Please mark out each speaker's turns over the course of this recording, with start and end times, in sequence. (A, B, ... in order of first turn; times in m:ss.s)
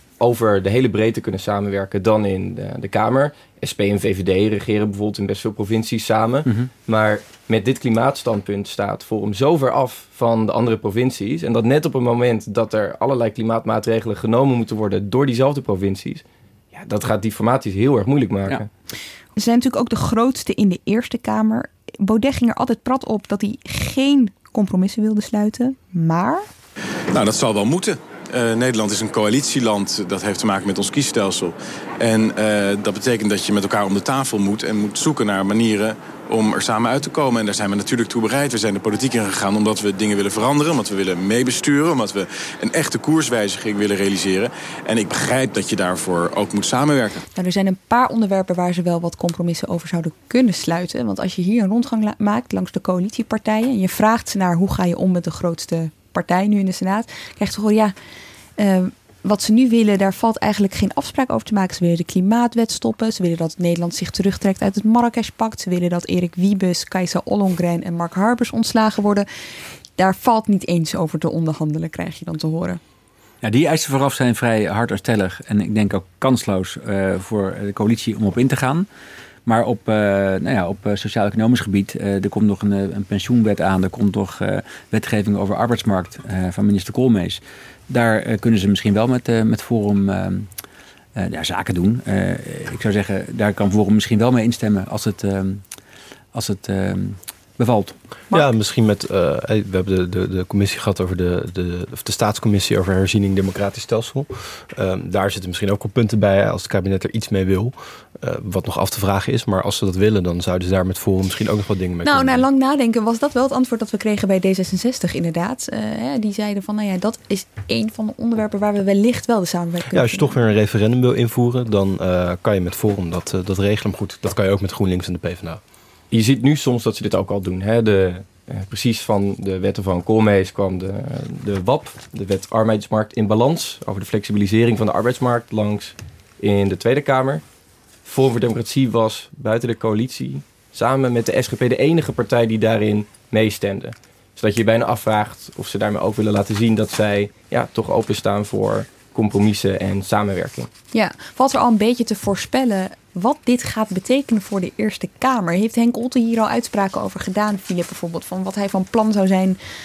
0:00.2-0:18.7 A
0:19.4-0:26.5 B
0:27.1-0:47.2 C
0:47.4-0:57.9 B
0:58.6-1:09.3 B
1:10.0-1:12.8 B
1:13.4-1:18.9 D
1:19.5-1:30.5 D
1:31.2-1:35.6 D
1:36.3-1:38.0 D
1:38.3-1:52.4 E
1:52.0-2:00.3 B
1:59.9-2:05.6 E
2:06.1-2:17.4 A
2:18.0-2:30.7 A
2:30.9-2:39.6 B